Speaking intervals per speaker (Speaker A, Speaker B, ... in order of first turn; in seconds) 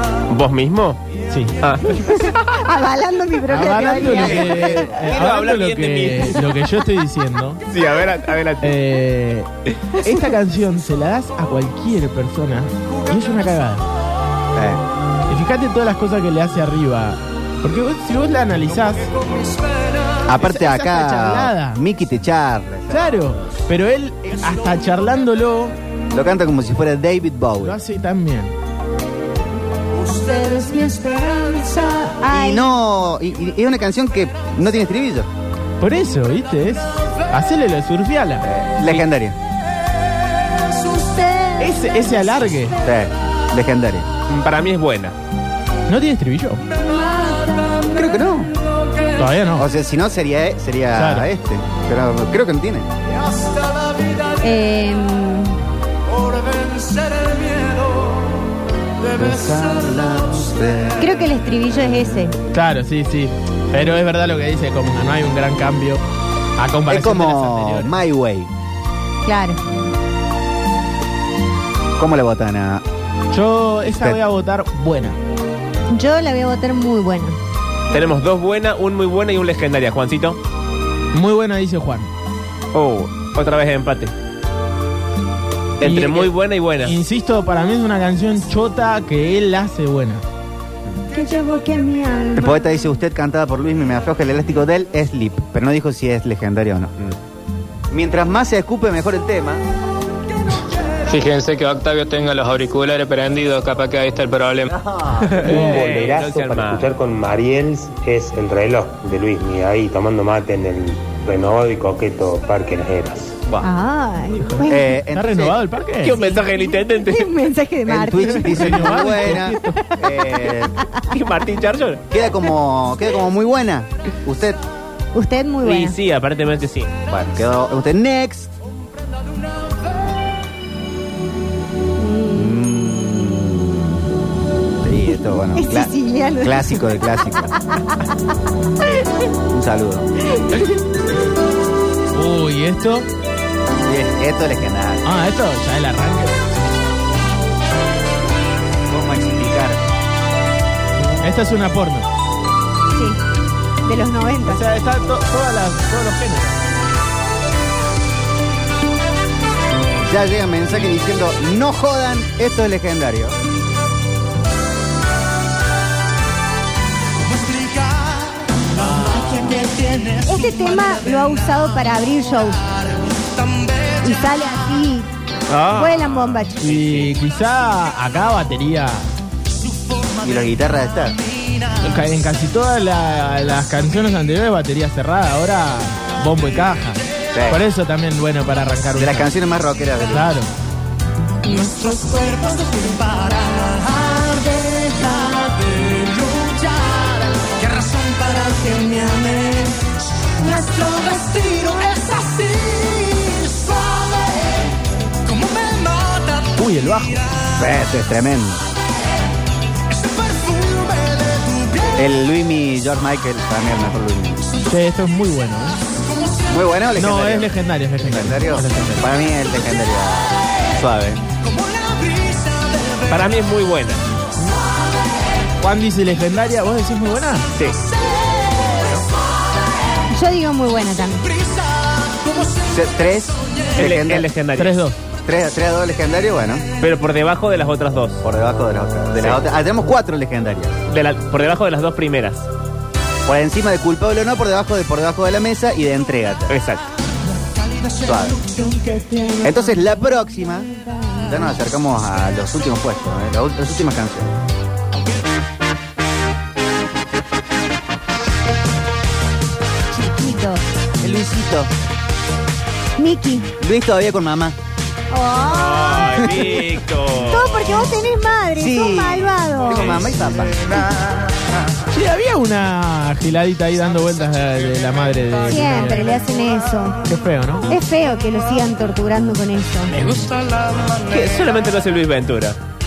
Speaker A: 0.3-1.0, 4.9-6.4, 7.7-8.8, 44.3-45.2, 77.9-80.4, 82.7-84.1, 85.8-86.9, 105.2-106.9, 116.0-117.3, 121.1-122.0, 125.6-126.9, 175.5-177.1, 223.1-224.0, 233.8-234.8, 236.8-238.2, 240.9-242.5, 246.5-246.9, 265.5-267.9, 281.0-282.6
Speaker B: 1.9-4.8, 30.1-32.7, 40.8-41.7, 46.9-47.9, 54.4-55.6, 61.0-62.4, 69.2-69.6, 75.9-77.4, 91.1-92.7, 113.6-115.0, 116.1-119.4, 119.9-120.7, 125.1-126.0, 132.0-132.6, 135.5-137.5, 140.3-140.8, 152.9-153.2, 153.8-154.7, 169.1-172.7, 174.0-175.1, 175.7-176.6, 191.4-196.6, 198.2-199.7, 200.4-202.2, 230.1-231.3, 248.5-250.2, 250.7-251.4, 259.9-260.6, 263.0-263.5, 265.1-266.2, 267.2-269.9, 275.5-277.0, 277.7-279.9
Speaker C: 3.5-7.6, 8.6-9.5, 10.0-13.8, 15.3-19.1, 20.4-21.8, 22.9-25.8, 27.6-28.5, 35.8-38.5, 41.6-42.8, 45.9-46.6, 49.2-49.7, 51.0-51.3, 62.5-66.0, 66.6-68.0, 73.3-75.2, 81.1-82.1, 85.8-90.2, 115.1-116.2, 118.2-119.8, 142.1-143.1, 145.1-146.6, 151.2-152.1, 154.5-156.6, 176.6-179.1, 181.8-189.3, 190.1-190.5, 206.6-207.4, 214.7-215.8, 217.0-219.1, 225.6-227.5, 234.6-235.0, 271.9-276.2, 277.1-277.7
Speaker D: 3.9-4.9, 14.6-14.8, 20.3-23.2, 26.1-27.8, 32.3-35.3, 38.4-39.4, 42.8-44.1, 47.9-48.5, 49.6-52.9, 59.1-61.1, 66.9-68.5, 72.0-72.8, 92.3-97.1, 97.9-99.6, 104.7-105.4, 114.6-115.6, 117.8-120.7, 122.1-124.6, 127.1-128.5, 132.3-134.1, 134.8-137.5, 139.5-140.1, 143.9-145.1, 148.9-149.8, 160.0-163.4, 180.2-181.2, 187.3-187.6, 188.9-190.3, 207.6-208.7, 211.9-214.5, 216.5-217.5, 218.0-221.2, 232.6-234.3, 235.2-236.7, 238.2-240.8, 243.3-246.6, 248.0-248.5, 249.4-250.7, 251.2-254.3, 261.0-261.7, 263.6-264.6, 266.2-266.5, 268.6-270.8
Speaker E: 101.1-104.8
Speaker F: 105.4-113.5